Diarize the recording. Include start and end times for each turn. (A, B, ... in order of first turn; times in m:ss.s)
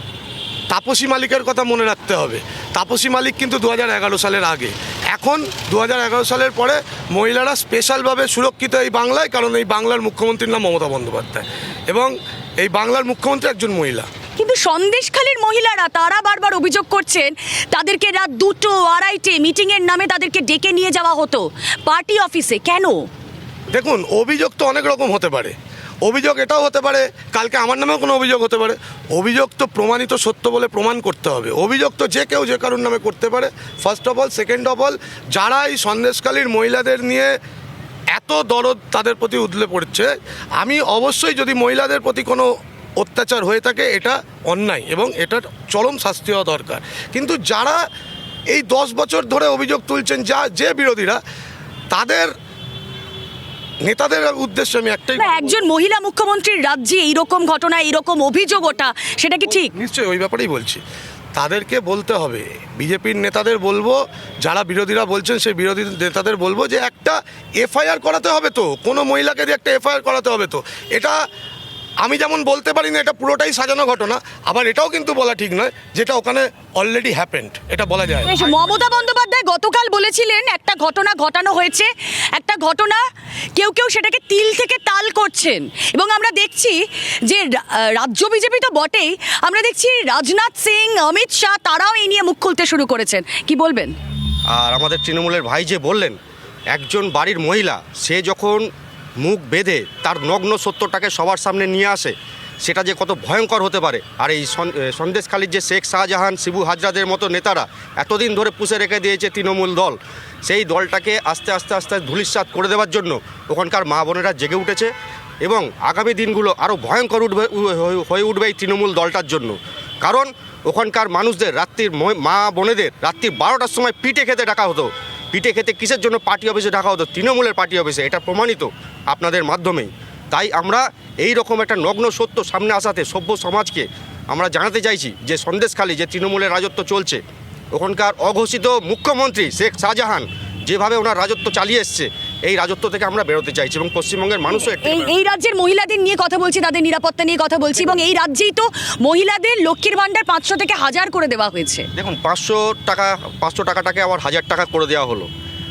0:00.7-0:14.1 A
0:14.4-0:23.0 B
0:23.7-0:37.3 A
0:38.1-0:42.5 A
0:43.0-0:47.8 A
0:48.5-0:51.2 A
0:51.9-0:52.3 A
0:53.9-0:55.4 A
0:55.2-0:59.7 B
0:59.8-1:00.8 A
1:01.4-1:11.2 A
1:12.0-1:18.3 A
1:18.2-1:23.0 B
1:23.6-1:33.9 B
1:34.5-1:36.2 C
1:36.7-1:38.6 C
1:39.2-1:54.9 C
1:55.4-2:17.2 C
2:17.7-2:25.1 C
2:24.8-2:31.9 B
2:32.0-2:35.3 C